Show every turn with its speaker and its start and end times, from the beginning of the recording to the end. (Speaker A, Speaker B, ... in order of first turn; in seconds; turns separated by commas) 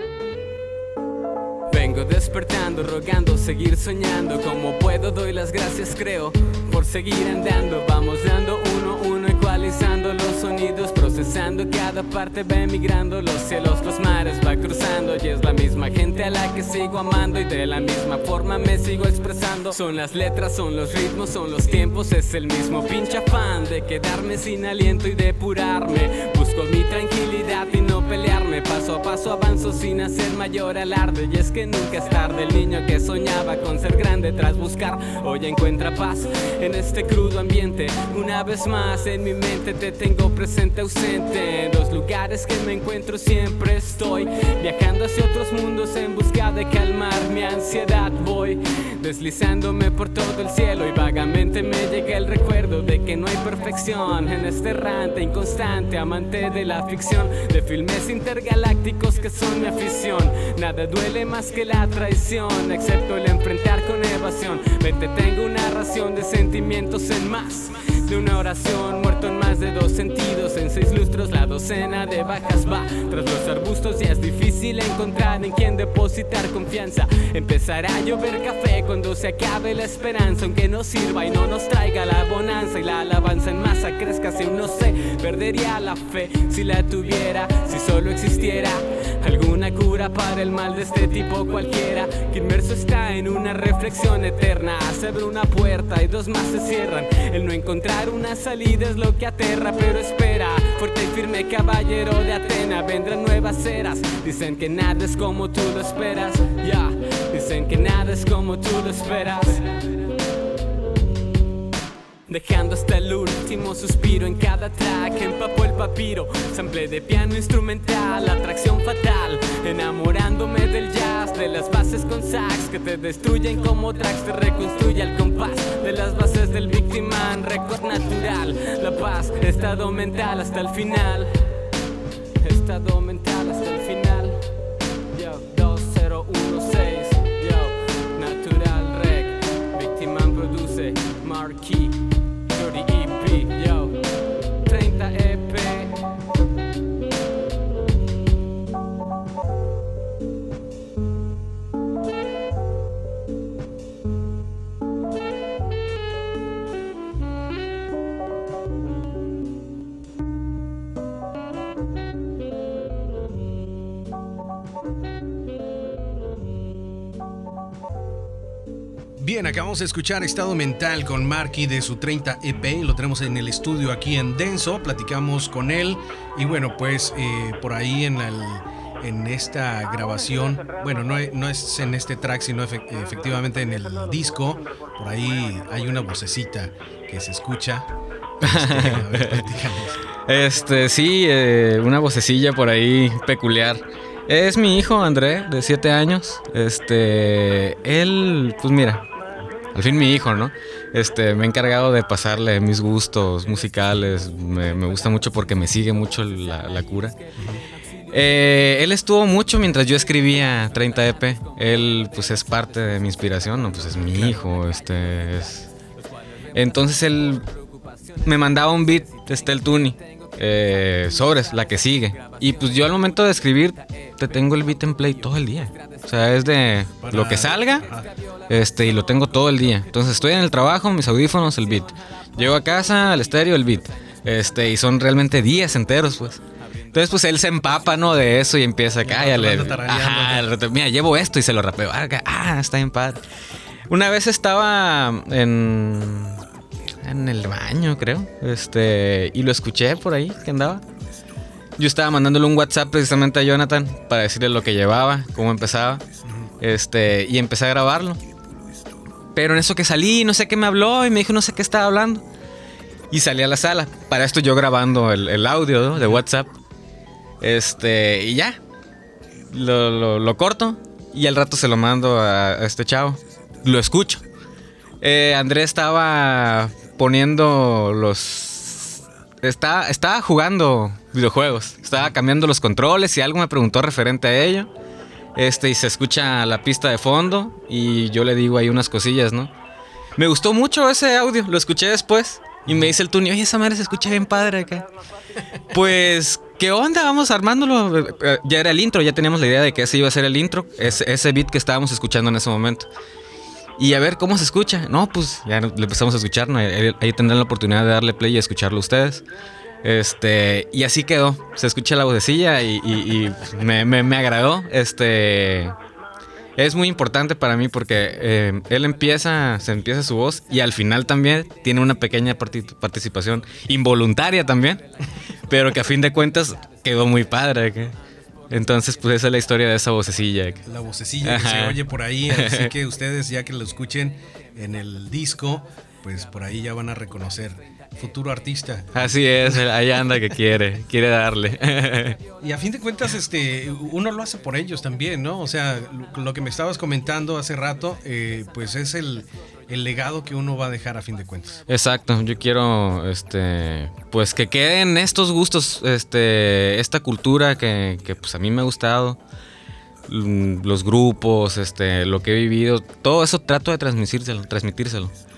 Speaker A: 1.7-109.7, Speaker A: 112.3-131.5, Speaker A: 132.4-134.4, Speaker A: 135.1-144.0, Speaker A: 144.7-146.0, Speaker B: 169.2-187.9, Speaker B: 188.4-190.0, Speaker C: 188.4-189.5, Speaker C: 190.3-199.0, Speaker C: 199.7-207.2, Speaker B: 207.4-207.6, Speaker C: 208.1-215.7, Speaker B: 214.1-214.4, Speaker C: 216.5-217.5, Speaker C: 218.2-227.9, Speaker B: 227.0-228.1, Speaker C: 228.5-243.2, Speaker B: 239.0-240.5, Speaker C: 243.9-246.4, Speaker C: 247.0-250.8, Speaker C: 251.8-256.0, Speaker C: 256.6-258.2, Speaker C: 259.4-262.2, Speaker C: 263.1-266.5, Speaker C: 267.4-268.6, Speaker C: 269.5-274.2, Speaker C: 275.0-284.7, Speaker C: 285.4-289.5, Speaker C: 290.2-294.9, Speaker C: 295.7-302.9, Speaker C: 303.8-309.2, Speaker C: 309.8-315.7, Speaker C: 316.6-324.9, Speaker C: 325.5-327.9, Speaker C: 328.5-330.6, Speaker B: 330.7-339.6, Speaker C: 331.2-332.7, Speaker C: 338.9-342.2, Speaker B: 342.4-351.6, Speaker C: 351.7-359.2, Speaker C: 360.1-365.1